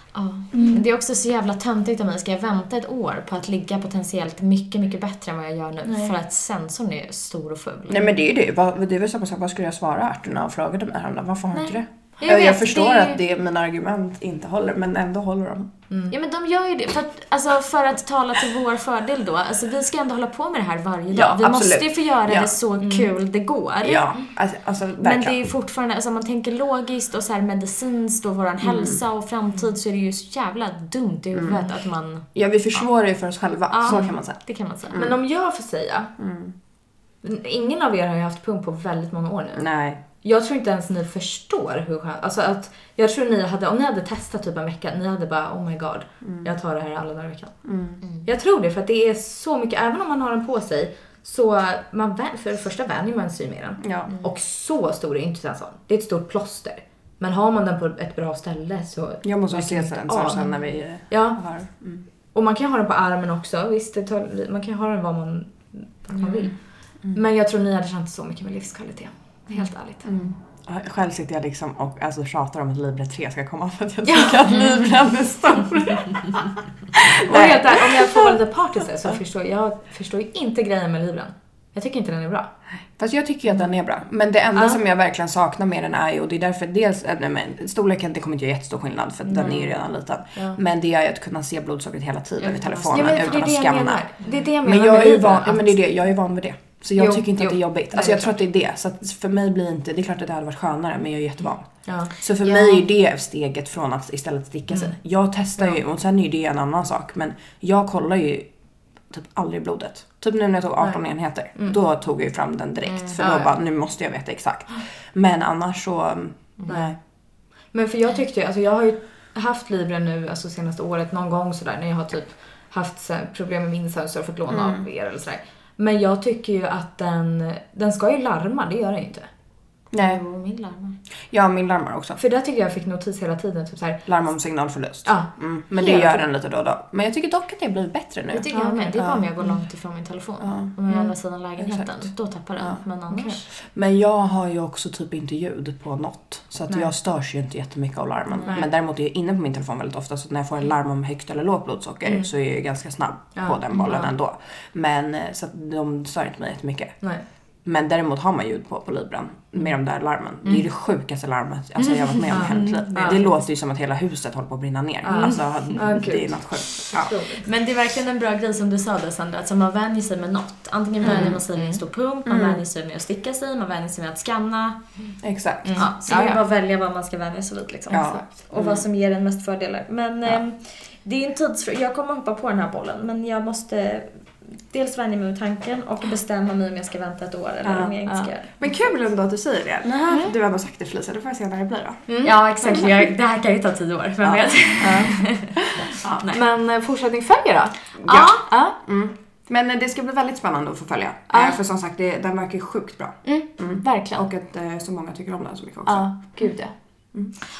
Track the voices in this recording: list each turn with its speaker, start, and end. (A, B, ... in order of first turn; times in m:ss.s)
0:00.1-0:08.1 A
0:00.5-0:00.8 B
0:05.8-0:06.1 B
0:07.9-0:15.7 C
0:12.2-0:13.2 B
0:16.1-0:24.2 A
0:21.1-0:22.5 C
0:22.8-0:23.1 B
0:23.8-0:25.4 C
0:25.0-0:32.3 A
0:28.6-0:29.0 C
0:31.3-0:31.7 C
0:32.3-0:34.4 C
0:33.7-0:35.0 A
0:34.9-0:36.1 B
0:36.2-0:36.5 C
0:37.2-0:39.6 B
0:39.5-0:40.0 C
0:40.2-0:47.6 B
0:47.6-0:48.0 C
0:48.2-1:00.5 B
0:53.8-0:54.1 C
0:59.2-1:02.0 C
1:01.1-1:01.4 B
1:02.3-1:06.6 B
1:07.1-1:10.0 B
1:10.0-1:18.4 C
1:14.1-1:14.3 B
1:17.2-1:22.5 B
1:22.9-1:34.1 C
1:29.2-1:29.7 B
1:30.3-1:30.6 B
1:32.4-1:33.4 A
1:32.9-1:35.8 B
1:34.6-1:48.5 C
1:37.0-1:38.3 B
1:41.8-1:42.8 B
1:49.1-1:57.0 C
1:52.9-1:53.5 B
1:56.7-1:57.0 B
1:57.7-2:09.3 B
2:04.5-2:04.8 C
2:09.9-2:10.2 C
2:10.0-2:11.0 A
2:11.3-2:12.2 C
2:12.2-2:14.0 B
2:14.0-2:19.2 C
2:15.0-2:16.2 B
2:18.3-2:23.4 A
2:18.5-2:19.0 B
2:20.4-2:20.7 C
2:21.6-2:21.9 C
2:23.1-2:23.4 B
2:23.7-2:37.0 C
2:28.3-2:28.6 A
2:33.3-2:34.1 B
2:37.6-2:47.1 C
2:41.8-2:43.2 B
2:42.3-2:43.3 A
2:45.0-2:47.4 B
2:45.2-2:45.7 A
2:47.3-2:54.9 A
2:51.0-2:51.4 C
2:51.0-2:51.8 B
2:52.2-2:52.6 C
2:55.2-2:55.8 C
2:55.6-2:56.4 B
2:55.8-3:08.5 A
2:57.9-2:58.3 B
2:57.9-2:58.8 C
3:07.6-3:08.0 C
3:08.6-3:12.0 C
3:09.8-3:10.2 A
3:12.1-3:12.9 B
3:12.2-3:16.4 A
3:14.2-3:14.5 C
3:14.8-3:15.2 B
3:15.7-3:16.2 C
3:16.3-3:18.8 B
3:18.0-3:18.4 A
3:18.8-3:26.0 C
3:21.3-3:21.6 B
3:23.2-3:24.3 B
3:25.8-3:26.7 B